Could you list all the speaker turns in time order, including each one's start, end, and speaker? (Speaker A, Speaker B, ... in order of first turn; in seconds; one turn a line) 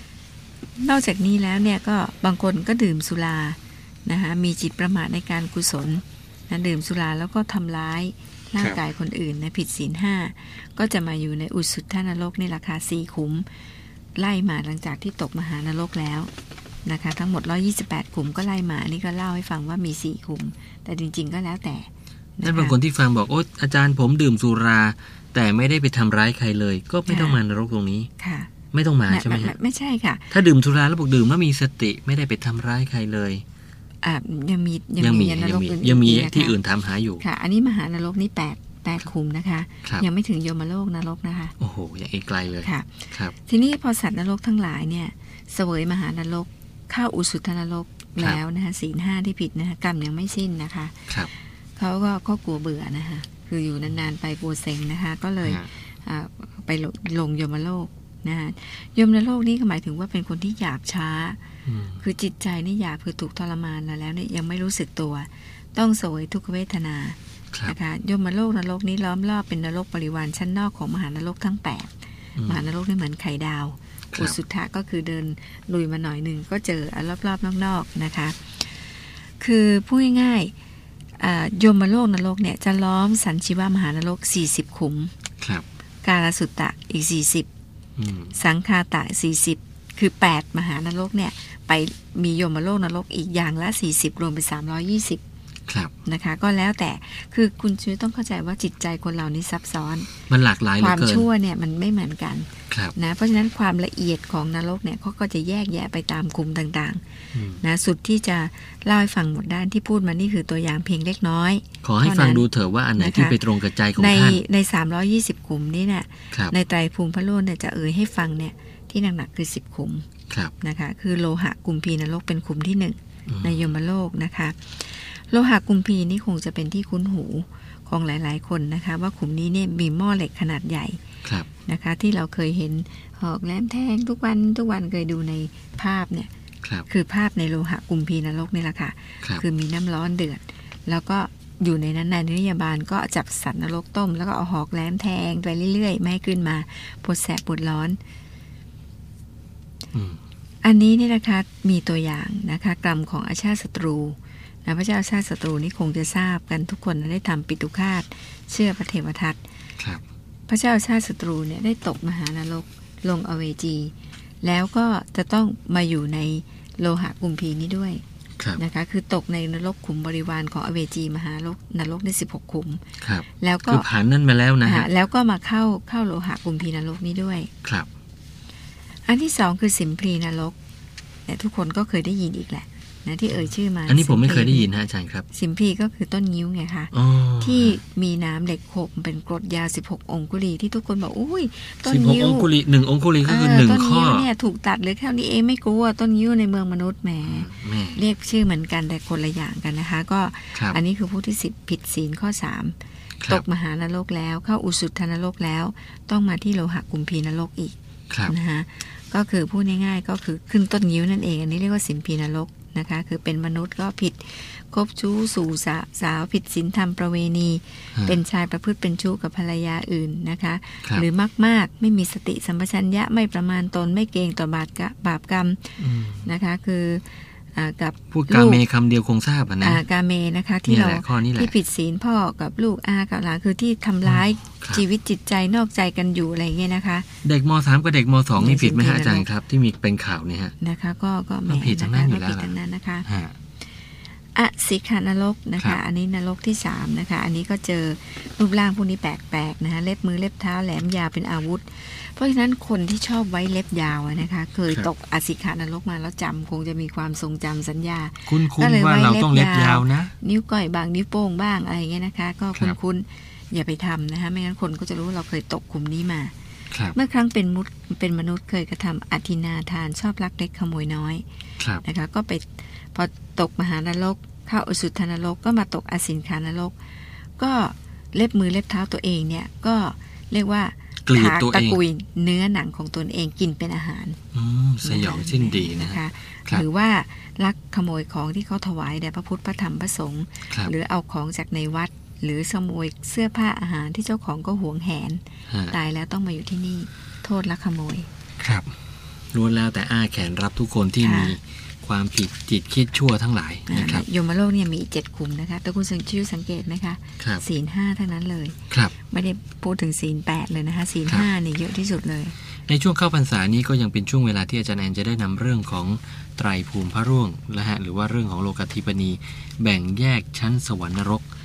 Speaker A: 0.8-13.5
Speaker A: 14.2-16.3
Speaker A: 16.8-22.8
Speaker B: 22.4-28.1
Speaker A: 27.1-27.4
Speaker A: 28.2-28.5
Speaker B: 28.7-29.5
Speaker A: 29.1-30.3
Speaker B: 30.3-33.4
Speaker A: 34.0-36.6
Speaker B: 35.0-37.2
Speaker A: 37.2-41.5
Speaker B: 41.6-43.3
Speaker A: 42.6-51.1
Speaker A: 51.8-61.4
Speaker B: 55.4-55.7
Speaker B: 61.6-62.0
Speaker A: 62.0-80.5
Speaker B: 72.3-72.6
Speaker A: 81.2-85.1
Speaker A: 86.0-87.5
Speaker B: 88.0-88.3
Speaker A: 88.3-95.2
Speaker B: 95.7-95.9
Speaker A: 96.0-100.1
Speaker B: 100.3-101.3
Speaker A: 100.8-107.0
Speaker B: 102.7-102.9
Speaker B: 107.3-107.6
Speaker A: 107.6-112.5
Speaker B: 111.8-114.4
Speaker A: 113.0-113.4
Speaker A: 114.0-120.0
Speaker A: 120.6-131.0
Speaker B: 123.3-123.7
Speaker A: 131.7-136.3
Speaker A: 136.9-148.0
Speaker B: 149.9-150.2
Speaker A: 150.6-159.4
Speaker A: 160.5-168.0
Speaker A: 168.6-172.8
Speaker B: 173.0-174.9
Speaker A: 173.4-173.8
Speaker A: 174.6-177.5
Speaker B: 177.6-177.9
Speaker A: 179.1-180.6
Speaker A: 181.3-184.7
Speaker B: 183.3-185.2
Speaker A: 185.3-192.5
Speaker B: 186.9-187.8
Speaker B: 191.8-194.3
Speaker A: 193.2-202.8
Speaker B: 197.2-198.0
Speaker B: 200.5-200.8
Speaker A: 203.3-207.7
Speaker B: 208.1-208.3
Speaker A: 208.3-228.6
Speaker B: 225.8-226.3
Speaker B: 228.1-229.8
Speaker A: 229.6-237.1
Speaker B: 230.6-231.5
Speaker B: 234.1-234.8
Speaker B: 237.2-240.5
Speaker A: 238.4-239.3
Speaker A: 240.6-243.1
Speaker B: 241.5-243.3
Speaker A: 244.3-266.3
Speaker B: 258.3-260.1
Speaker B: 266.7-266.9
Speaker A: 266.9-271.2
Speaker B: 271.6-271.8
Speaker A: 271.8-276.7
Speaker A: 277.4-284.2
Speaker B: 281.0-281.8
Speaker B: 284.3-286.6
Speaker A: 284.8-298.1
Speaker B: 295.5-295.7
Speaker B: 298.4-298.7
Speaker B: 299.3-304.0
Speaker A: 301.0-301.4
Speaker A: 303.7-312.3
Speaker B: 312.7-321.2